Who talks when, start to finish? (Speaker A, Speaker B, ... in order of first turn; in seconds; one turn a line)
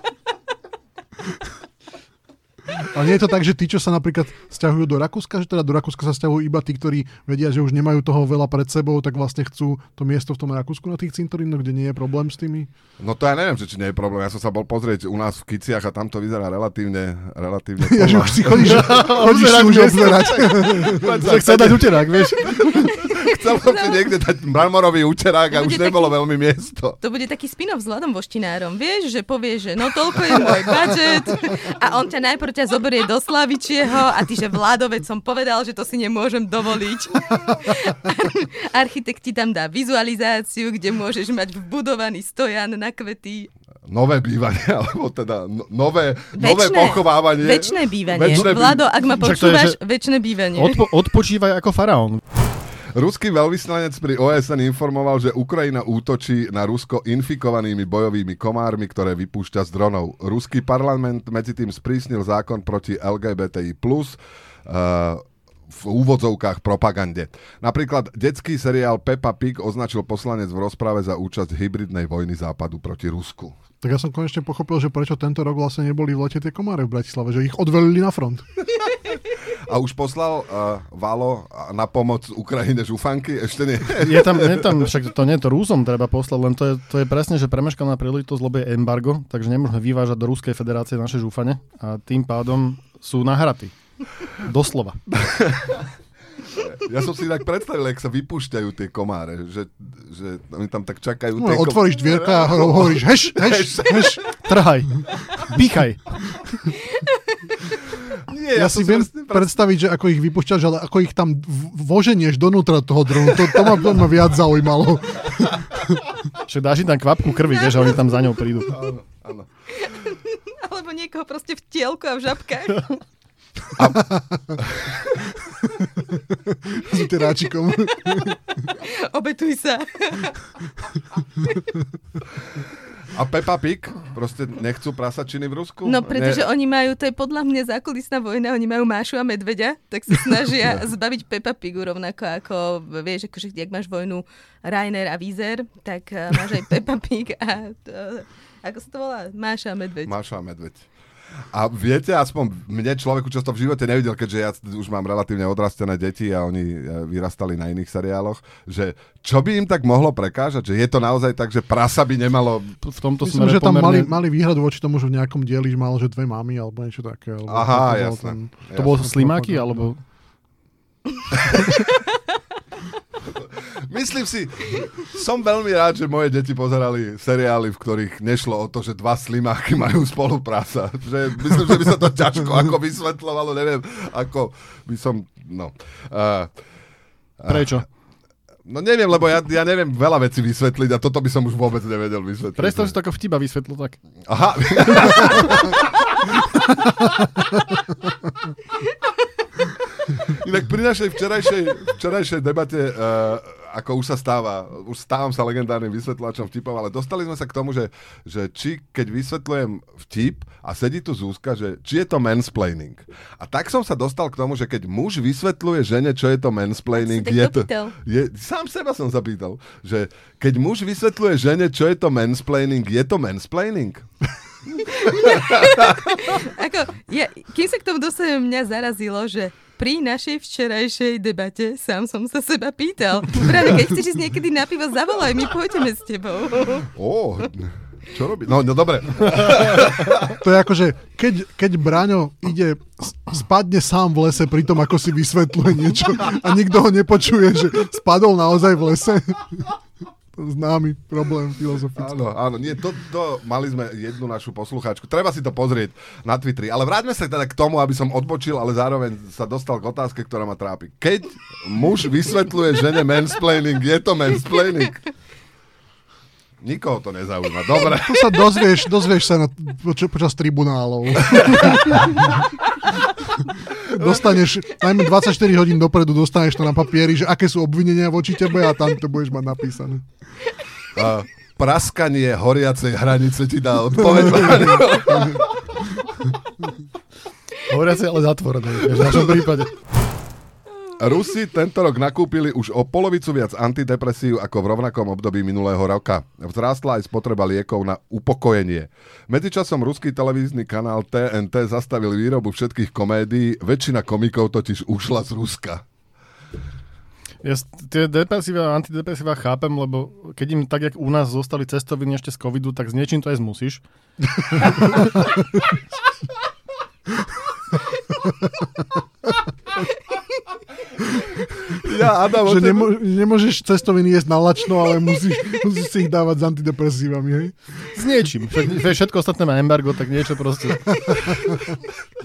Speaker A: 2.8-12.7
Speaker B: 13.0-19.0
Speaker A: 17.8-21.2
Speaker C: 18.5-23.0
Speaker B: 20.4-27.0
Speaker D: 23.1-24.0
Speaker D: 25.5-26.1
Speaker D: 27.0-43.5
Speaker B: 43.9-48.9
Speaker D: 46.3-50.8
Speaker C: 49.1-49.8
Speaker C: 50.6-52.2
Speaker B: 52.9-73.6
Speaker A: 73.8-78.5
Speaker B: 79.7-84.7
Speaker C: 83.9-93.8
Speaker C: 94.3-95.0
Speaker B: 95.1-95.8
Speaker B: 96.5-104.3
Speaker A: 101.4-104.4
Speaker C: 104.3-106.4
Speaker B: 108.3-109.6
Speaker A: 108.5-116.1
Speaker C: 116.4-118.8
Speaker B: 118.7-119.5
Speaker D: 119.8-123.0
Speaker B: 123.8-125.0
Speaker A: 123.8-124.5
Speaker A: 125.6-128.6
Speaker D: 128.1-130.5
Speaker B: 133.1-136.4
Speaker D: 135.8-150.1
Speaker B: 150.1-150.9
Speaker B: 151.5-162.8
Speaker C: 162.8-164.1
Speaker A: 163.2-169.9
Speaker B: 167.5-169.0
Speaker C: 168.7-170.0
Speaker B: 171.3-171.6
Speaker B: 173.3-186.5
Speaker B: 187.4-187.8
Speaker C: 187.5-187.9
Speaker B: 188.7-192.9
Speaker C: 192.6-194.0
Speaker B: 194.2-196.4
Speaker C: 194.7-195.8
Speaker B: 200.0-224.1
Speaker D: 216.9-218.0
Speaker B: 224.8-226.3
Speaker D: 225.0-236.9
Speaker B: 236.9-240.3
Speaker A: 240.3-249.7
Speaker A: 250.3-252.1
Speaker B: 251.9-265.0
Speaker B: 266.6-268.6
Speaker A: 267.8-272.4
Speaker B: 271.3-271.8
Speaker A: 273.8-280.1
Speaker B: 280.9-285.8
Speaker C: 287.6-289.8
Speaker B: 291.0-305.9
Speaker C: 307.4-315.2
Speaker A: 318.4-318.7
Speaker B: 321.7-322.9
Speaker A: 322.3-327.8
Speaker C: 327.9-331.6